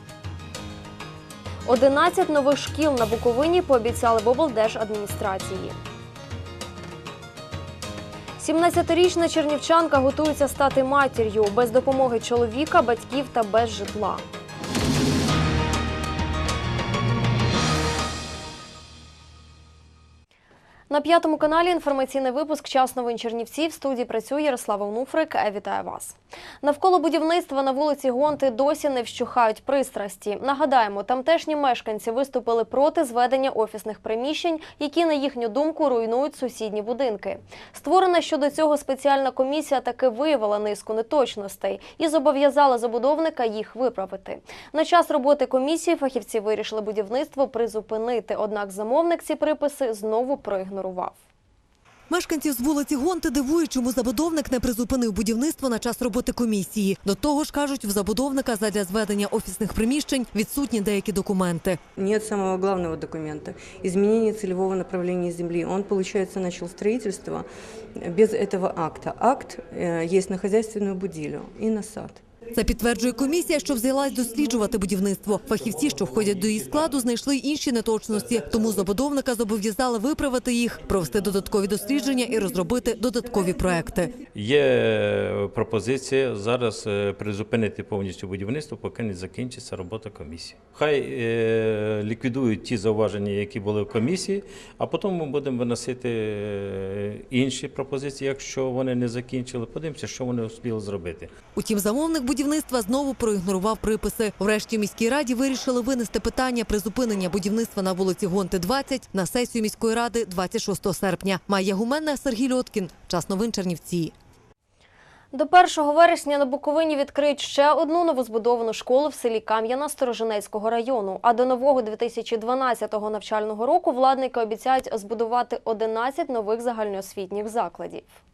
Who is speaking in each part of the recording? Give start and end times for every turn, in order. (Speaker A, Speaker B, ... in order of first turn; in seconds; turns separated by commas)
Speaker A: 1.7-5.8, Speaker A: 8.4-14.2, Speaker A: 20.9-51.2, Speaker B: 52.1-61.8, Speaker C: 62.0-72.2, Speaker B: 72.5-84.2, Speaker D: 84.3-101.3, Speaker B: 101.5-114.1, Speaker A: 115.3-128.2